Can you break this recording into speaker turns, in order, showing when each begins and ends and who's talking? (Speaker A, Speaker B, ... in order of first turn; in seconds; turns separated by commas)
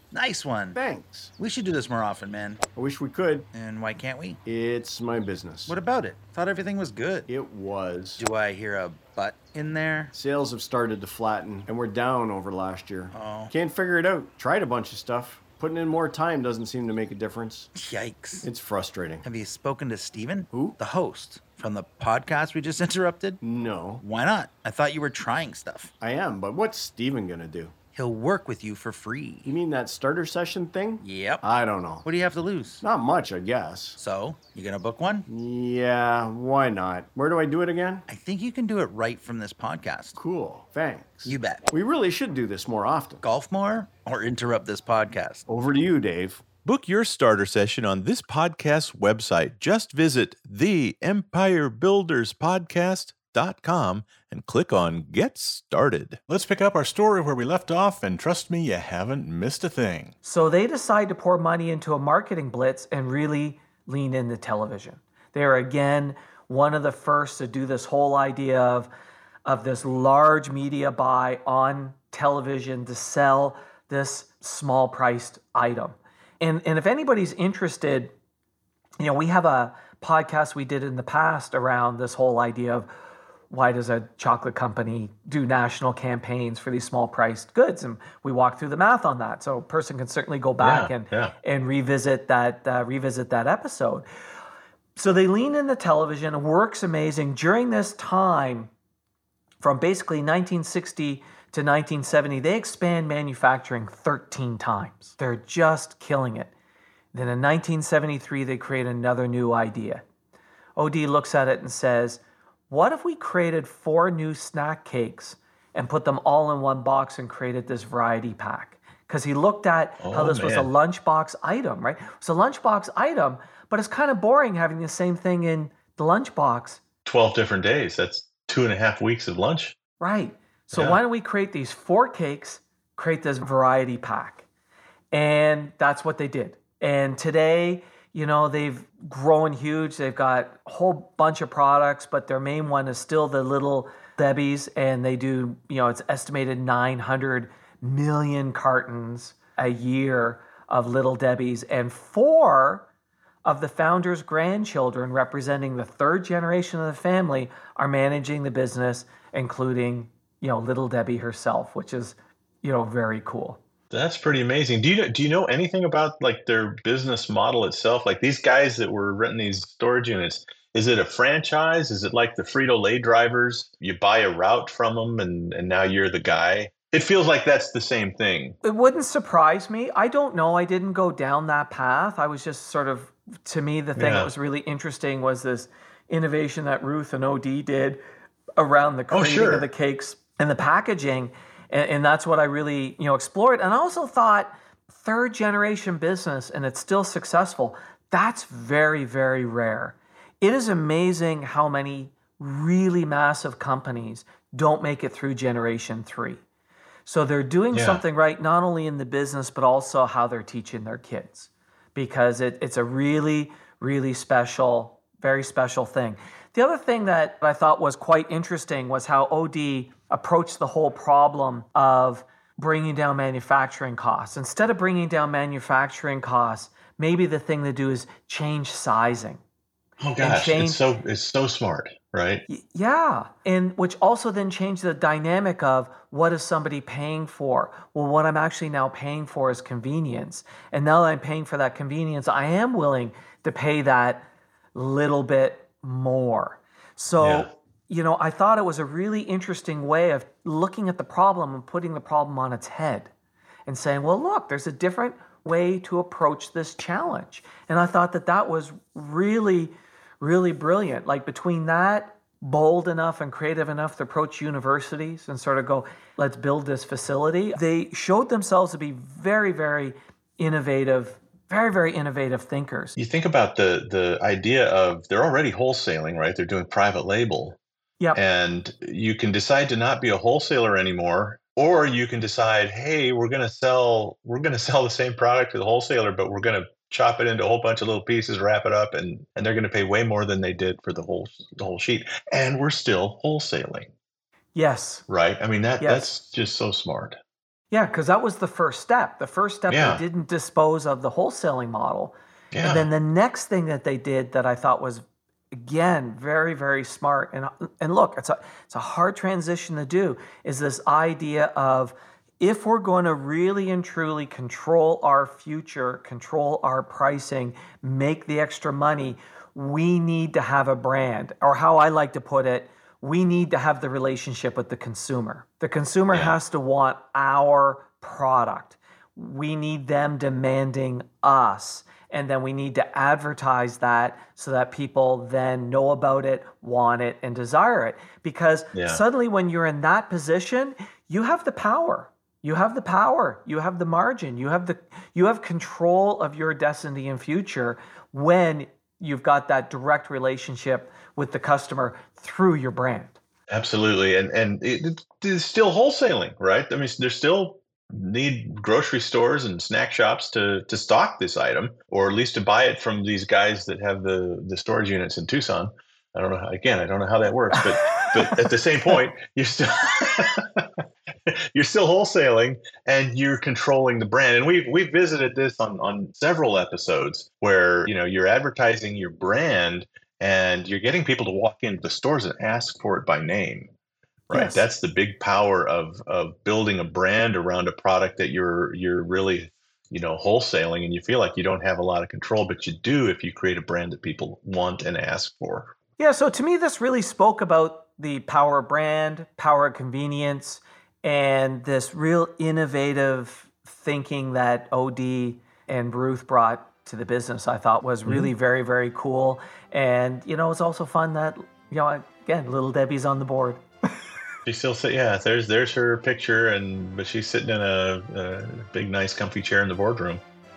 Speaker A: 0.1-0.8, Speaker B: 0.8-1.3, Speaker A: 1.4-2.6, Speaker B: 2.8-3.5, Speaker A: 3.5-4.4, Speaker B: 4.5-5.8, Speaker A: 5.7-7.3, Speaker B: 7.3-8.2, Speaker A: 8.2-10.1, Speaker B: 10.1-17.7, Speaker A: 13.1-13.5, Speaker A: 17.8-18.5, Speaker B: 18.4-19.2, Speaker A: 19.2-23.4, Speaker B: 23.4-24.0, Speaker A: 24.0-25.9, Speaker B: 26.0-27.7, Speaker A: 27.9-29.6, Speaker B: 29.4-32.0, Speaker A: 31.0-31.5, Speaker A: 32.0-32.8, Speaker B: 32.8-34.0, Speaker A: 34.0-35.3, Speaker B: 35.3-38.0, Speaker A: 38.1-40.2, Speaker B: 40.2-43.2, Speaker A: 41.2-41.6, Speaker A: 43.2-45.5, Speaker B: 45.5-46.4, Speaker C: 46.6-60.1, Speaker D: 60.2-68.9, Speaker D: 69.5-78.1, Speaker D: 79.0-82.9, Speaker D: 83.5-94.1, Speaker E: 90.6-91.3, Speaker D: 95.0-98.7, Speaker D: 99.6-106.5, Speaker D: 107.1-110.0, Speaker D: 110.8-126.8, Speaker E: 120.0-120.7, Speaker E: 127.0-129.8, Speaker D: 130.0-134.5, Speaker E: 130.8-131.0, Speaker D: 135.1-152.9, Speaker D: 153.4-163.6, Speaker E: 163.9-178.6, Speaker D: 178.6-188.0, Speaker E: 184.0-184.3, Speaker D: 188.6-206.4, Speaker E: 189.1-189.7, Speaker D: 207.1-229.4, Speaker E: 207.7-208.0, Speaker E: 230.0-232.4, Speaker D: 230.2-230.8, Speaker D: 232.5-253.1, Speaker E: 247.2-247.5, Speaker D: 253.7-273.0, Speaker E: 273.0-277.6, Speaker E: 278.1-293.9, Speaker D: 294.6-295.1, Speaker E: 295.1-297.2, Speaker D: 295.8-296.1, Speaker D: 297.7-353.2, Speaker E: 299.7-300.0, Speaker E: 302.5-302.9, Speaker E: 338.7-339.0, Speaker E: 353.5-370.6, Speaker E: 371.5-383.7, Speaker E: 384.3-395.7, Speaker D: 384.3-384.7, Speaker D: 396.0-413.6, Speaker E: 408.1-408.3, Speaker E: 414.4-420.2